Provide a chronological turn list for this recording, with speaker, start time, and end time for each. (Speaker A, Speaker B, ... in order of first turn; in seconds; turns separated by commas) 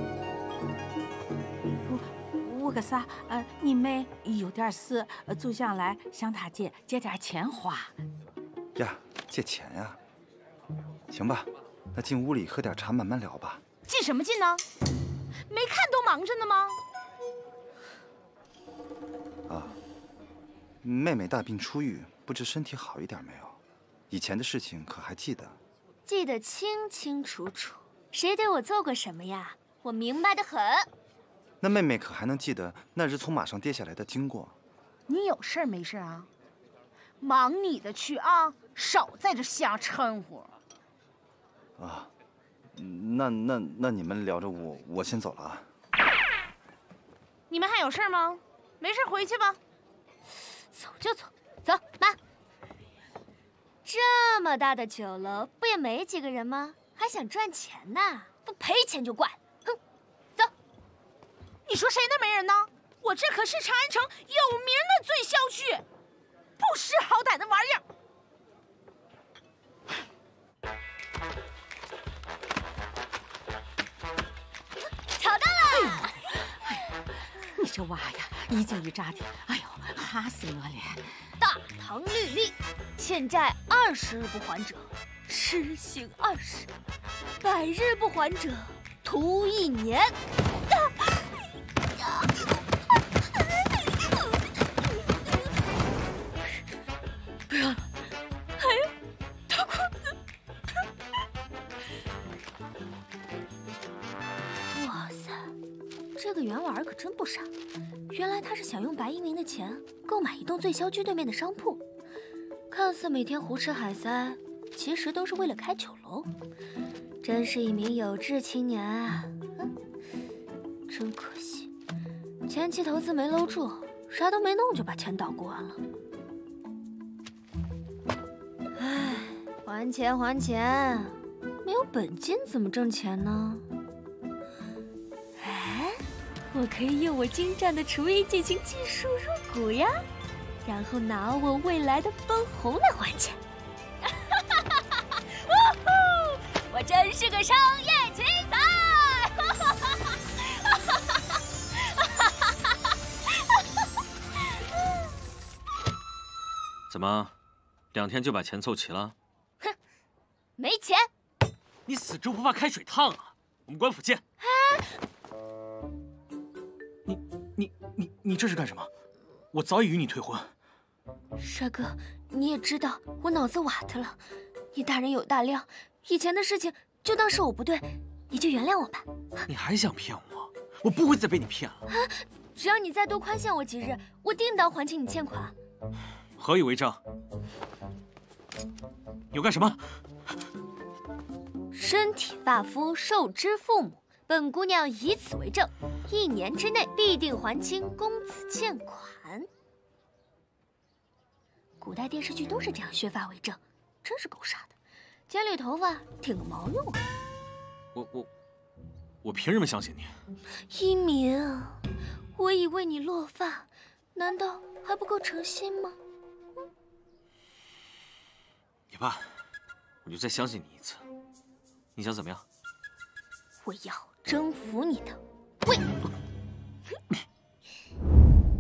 Speaker A: 1.8-7.9, Speaker B: 8.8-10.0, Speaker B: 11.1-13.6, Speaker C: 13.9-14.6, Speaker C: 15.5-16.8, Speaker B: 19.5-19.8, Speaker B: 20.8-23.6, Speaker B: 24.1-25.6, Speaker D: 26.0-30.9, Speaker B: 31.6-34.5, Speaker C: 35.1-36.3, Speaker C: 37.2-40.5, Speaker B: 41.8-42.1, Speaker B: 42.8-45.6, Speaker C: 47.5-49.6, Speaker D: 50.7-52.2, Speaker D: 53.8-59.8, Speaker C: 61.7-65.8, Speaker C: 66.6-67.8, Speaker D: 75.1-76.2, Speaker A: 77.5-81.1, Speaker D: 81.4-86.7, Speaker D: 87.4-90.2, Speaker D: 97.5-97.8, Speaker D: 98.6-98.9, Speaker D: 99.5-99.9, Speaker D: 104.7-105.5, Speaker D: 106.2-107.5, Speaker D: 108.1-111.8, Speaker D: 112.7-116.3, Speaker D: 117.2-119.7, Speaker D: 120.9-121.7, Speaker D: 122.4-125.8, Speaker D: 128.8-133.7, Speaker D: 135.4-140.0, Speaker D: 140.6-143.4, Speaker D: 144.2-150.9, Speaker E: 156.9-157.3, Speaker E: 157.9-159.1, Speaker D: 160.6-161.1, Speaker E: 161.8-164.2, Speaker D: 164.4-164.9, Speaker E: 167.1-168.9, Speaker E: 169.5-170.5, Speaker D: 171.4-174.2, Speaker D: 174.7-179.1, Speaker E: 179.5-181.8, Speaker D: 181.9-185.5, Speaker E: 186.4-187.0, Speaker E: 189.3-189.8, Speaker D: 191.7-199.5, Speaker D: 201.8-204.7, Speaker D: 205.3-207.0, Speaker E: 207.9-208.3, Speaker E: 209.2-210.1, Speaker D: 210.7-211.8, Speaker D: 212.3-216.0, Speaker E: 218.9-219.3, Speaker E: 220.0-221.0, Speaker E: 221.9-222.4, Speaker D: 223.6-225.9